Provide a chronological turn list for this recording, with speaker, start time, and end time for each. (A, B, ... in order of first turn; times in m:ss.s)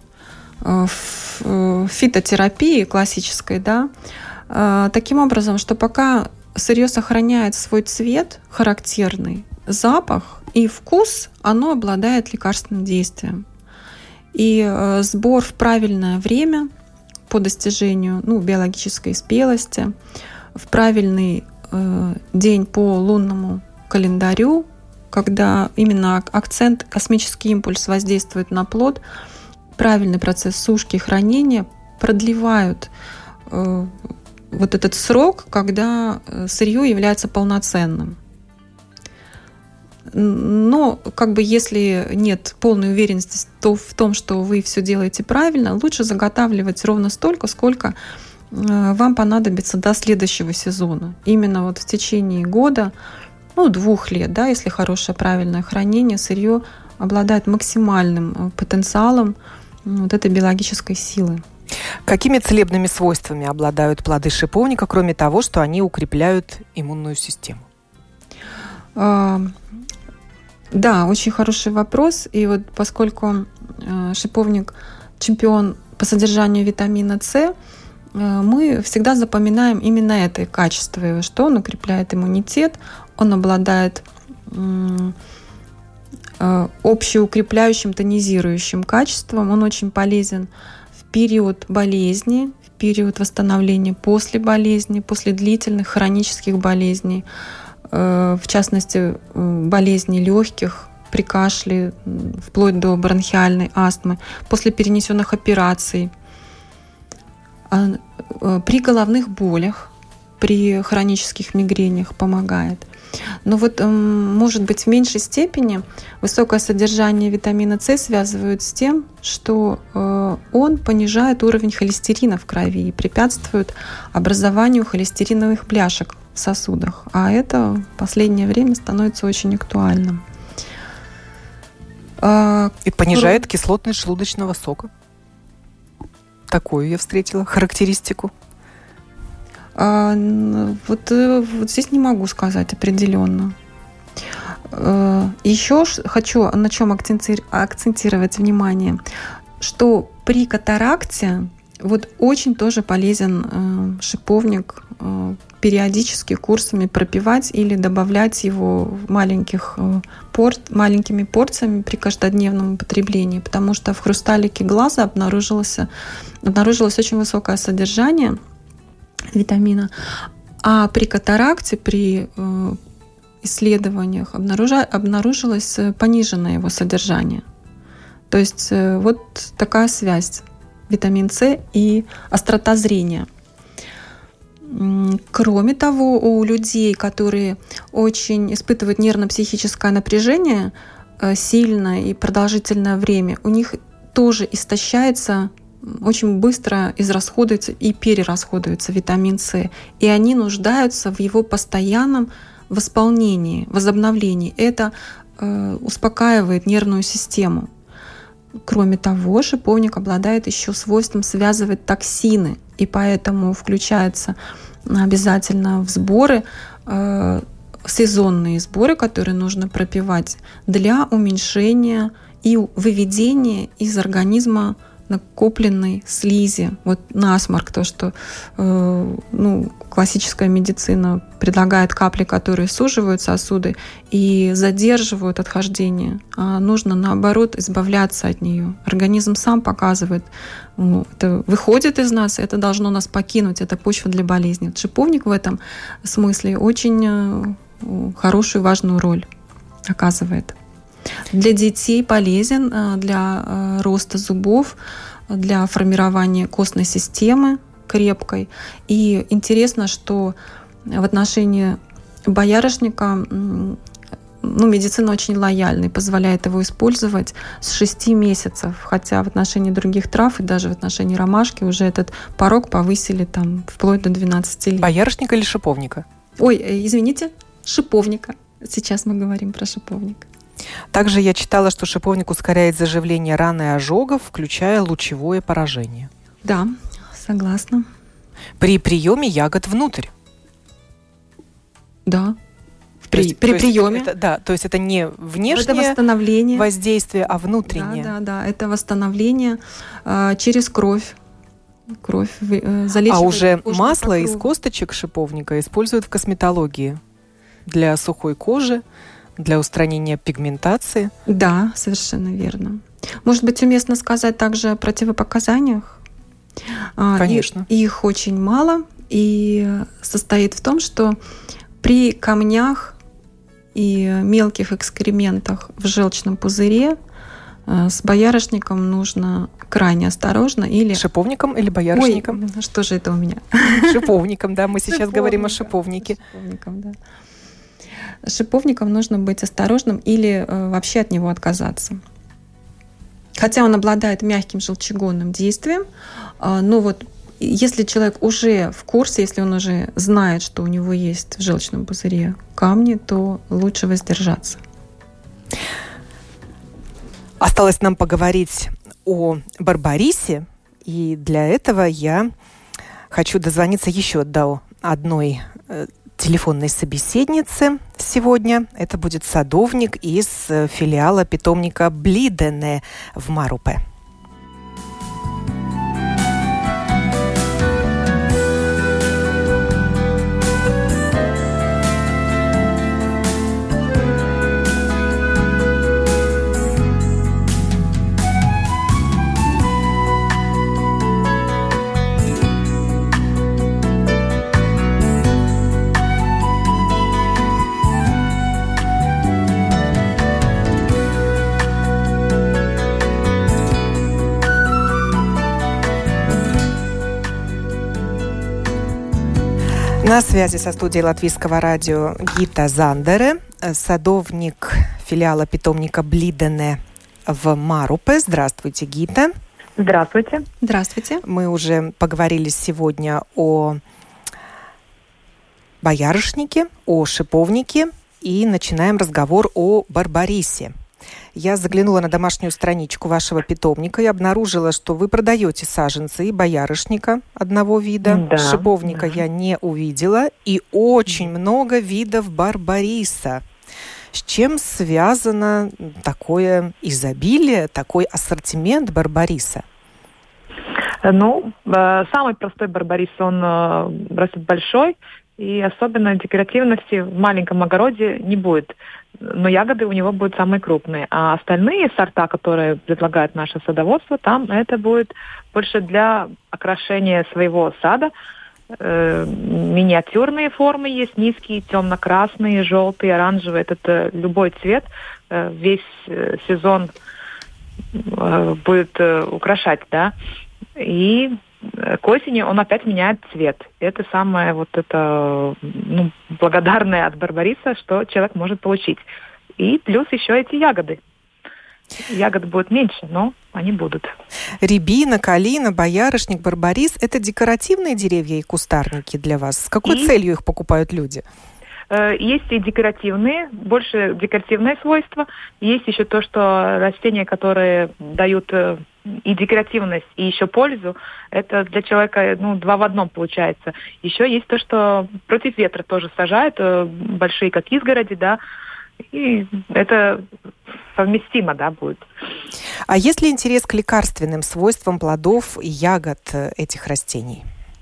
0:00.6-0:03.9 A
0:04.5-0:13.4 A
0:14.3-0:16.7 A
0:17.3-0:19.9 A
0:20.6-0:29.0 A
0:29.8-0:32.9 A
0:33.5-0:34.0 A
0:34.5-0:38.2 A
0:40.1-0:48.0 A
0:48.5-0:52.9 A
0:53.6-1:01.4 A
1:02.0-1:07.7 B
1:09.0-1:09.6 A
1:10.7-1:17.5 A
1:18.2-1:25.2 A
1:26.4-1:30.5 A
1:31.1-1:37.2 A
1:37.9-1:46.1 A
1:47.7-1:52.9 A
1:53.4-2:10.2 A
2:12.2-2:13.4 A
2:12.9-2:14.9 B
2:16.5-2:18.3 B
2:19.8-2:23.6 A
2:24.7-2:29.0 A
2:29.6-2:45.9 A
2:46.4-2:48.4 A
2:49.3-2:52.8 A
2:53.4-2:57.4 A
2:58.3-3:03.3 A
3:04.7-3:27.7 A
3:28.7-4:09.3 A
4:09.9-4:10.6 A
4:11.3-4:14.8 A
4:15.3-4:20.4 A
4:20.9-4:23.8 A
4:24.4-4:34.9 A
4:34.8-4:36.0 B
4:36.4-4:40.3 A
4:40.9-4:46.1 B
4:46.4-4:47.9 A
4:48.6-4:50.1 B
4:52.1-4:52.4 A
4:53.1-4:54.1 A
4:53.1-4:56.0 B
4:55.5-4:56.7 A
4:56.5-4:58.1 B
4:57.7-5:01.2 A
5:02.0-5:04.5 A
5:03.1-5:07.0 B
5:07.7-5:08.8 B
5:09.4-5:11.1 B
5:11.3-5:16.0 A
5:17.0-5:21.2 A
5:17.2-5:17.7 B
5:21.8-5:23.0 A
5:23.8-5:27.0 A
5:27.7-5:31.0 A
5:30.9-5:32.4 B
5:31.9-5:34.1 A
5:33.7-5:36.2 B
5:34.9-5:37.0 A
5:38.2-5:42.0 A
5:43.4-5:45.8 A
5:46.4-5:54.6 A
5:57.4-6:02.3 B
6:03.1-6:13.8 B
6:50.0-6:59.3 B
6:59.8-7:00.5 C
7:00.6-7:01.2 A
7:01.2-7:03.8 B
7:05.8-7:10.7 B
7:11.3-7:23.4 B
7:18.0-7:19.1 C
7:24.1-7:29.6 B
7:31.0-7:48.1 C
7:48.7-7:56.9 C
7:57.9-8:00.1 C
8:00.8-8:09.0 C
8:09.6-8:11.0 C
8:12.1-8:14.1 C
8:14.6-8:21.2 B
8:21.9-8:38.4 C
8:39.1-8:40.3 C
8:40.9-8:42.1 C
8:42.9-8:47.4 B